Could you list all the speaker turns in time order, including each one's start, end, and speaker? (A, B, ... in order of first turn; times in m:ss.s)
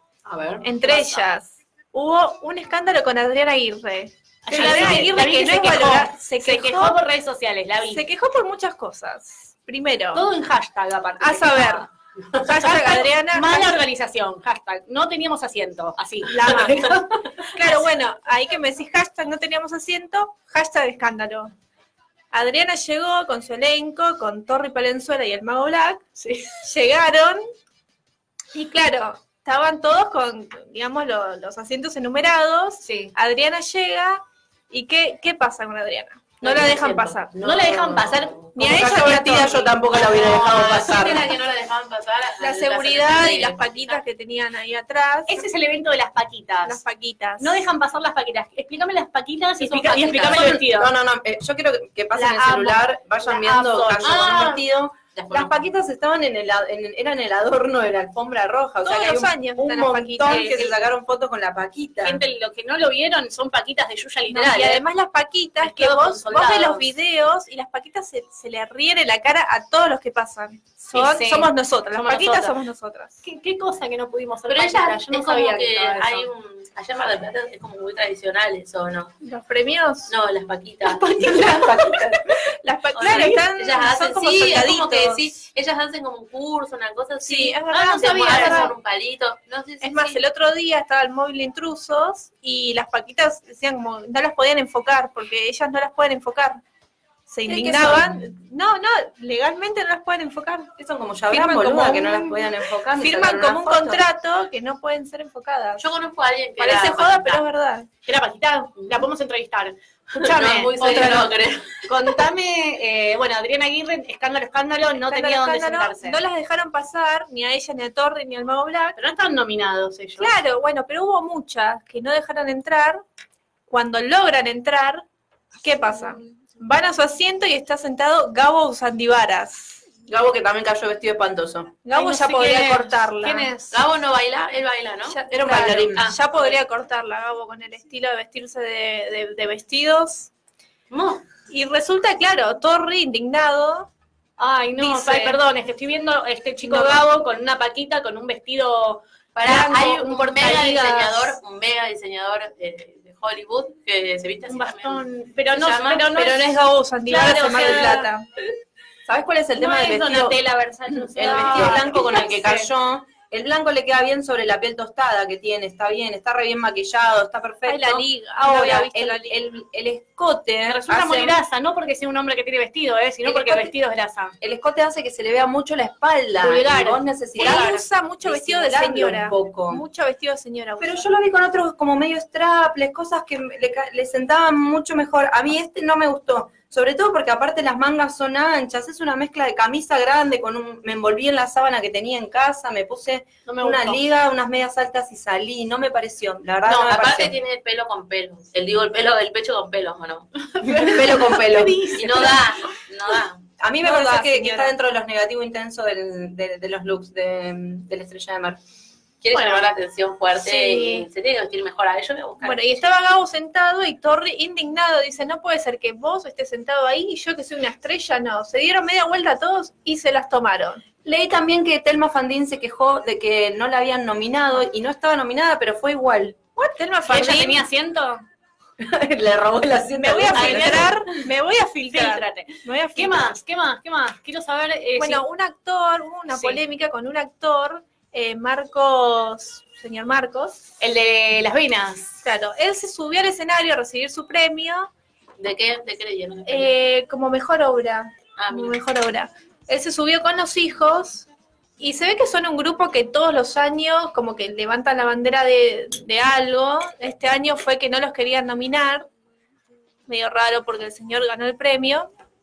0:00.3-0:01.2 A
0:00.6-0:07.0 B
0:04.5-0:08.0 A
0:07.9-0:10.3 B
0:10.1-0:17.5 A
0:11.2-0:11.9 B
0:12.4-0:13.8 B
0:16.3-0:16.9 B
0:17.5-0:21.5 B
0:22.3-0:26.0 B
0:26.2-0:26.6 A
0:26.6-0:27.4 B
0:28.5-0:37.3 B
0:32.8-0:33.1 A
0:36.4-0:38.5 C
0:37.4-0:38.4 A
0:38.6-0:39.7 B
0:38.6-0:41.2 D
0:39.9-0:44.0 C
0:42.4-0:45.4 B
0:45.3-0:46.8 A
0:46.6-0:47.6 B
0:47.4-0:50.9 A
0:49.8-0:50.1 B
0:50.0-1:02.2 D
0:52.1-0:52.8 B
0:53.2-0:54.6 A
0:55.1-0:55.6 C
0:58.8-1:00.7 B
1:00.3-1:00.5 A
1:02.0-1:04.8 A
1:04.3-1:13.2 B
1:05.6-1:06.9 A
1:10.9-1:12.6 A
1:13.2-1:16.3 A
1:14.5-1:19.2 C
1:19.2-1:20.1 B
1:20.1-1:22.2 C
1:20.9-1:25.3 B
1:23.0-1:30.2 C
1:27.2-1:28.7 B
1:27.7-1:28.7 A
1:29.8-1:36.6 B
1:37.3-1:40.7 B
1:37.5-1:38.2 D
1:40.8-1:44.0 D
1:41.3-1:45.8 B
1:45.8-1:47.4 C
1:46.6-1:47.9 B
1:48.1-1:51.3 A
1:50.2-1:52.1 C
1:51.9-1:56.2 A
1:55.1-1:59.0 B
1:59.0-2:00.3 A
2:00.2-2:03.0 B
2:03.7-2:05.0 B
2:05.6-2:09.8 B
2:10.1-2:11.8 D
2:11.8-2:13.5 B
2:11.9-2:13.8 A
2:13.7-2:15.2 C
2:15.1-2:20.3 B
2:15.3-2:16.1 D
2:16.0-2:16.5 A
2:20.9-2:21.2 C
2:21.5-2:23.9 B
2:24.4-2:29.0 A
2:24.8-2:25.4 B
2:26.6-2:27.0 B
2:29.4-2:36.2 C
2:29.4-2:31.4 B
2:30.0-2:31.0 A
2:34.5-2:36.4 A
2:36.1-2:38.3 B
2:37.1-2:38.1 A
2:39.1-2:40.4 D
2:39.6-2:42.7 A
2:39.6-2:40.4 B
2:40.9-2:42.0 B
2:41.2-2:51.4 D
2:47.7-2:49.4 B
2:50.7-2:54.4 A
2:53.3-2:53.7 D
2:54.4-2:59.8 D
2:56.4-2:57.8 A
2:57.4-3:01.1 B
3:00.8-3:17.4 D
3:13.5-3:14.0 A
3:16.7-3:20.3 C
3:20.4-3:22.4 A
3:20.6-3:22.3 D
3:22.0-3:23.4 C
3:23.6-3:28.6 D
3:23.8-3:24.7 B
3:29.2-3:32.8 C
3:29.3-3:29.7 A
3:30.4-3:31.1 B
3:32.4-3:40.8 B
3:41.0-3:46.4 D
3:46.6-3:47.6 B
3:47.1-3:48.2 A
3:48.8-3:51.0 D
3:50.0-3:53.4 B
3:50.4-3:50.9 A
3:51.9-3:55.2 A
3:55.0-4:00.6 B
3:56.3-3:56.6 A
4:00.8-4:02.2 A
4:02.2-4:04.9 B
4:05.4-4:06.7 C
4:06.5-4:11.3 B
4:08.4-4:08.8 C
4:11.8-4:19.1 B
4:20.1-4:22.1 B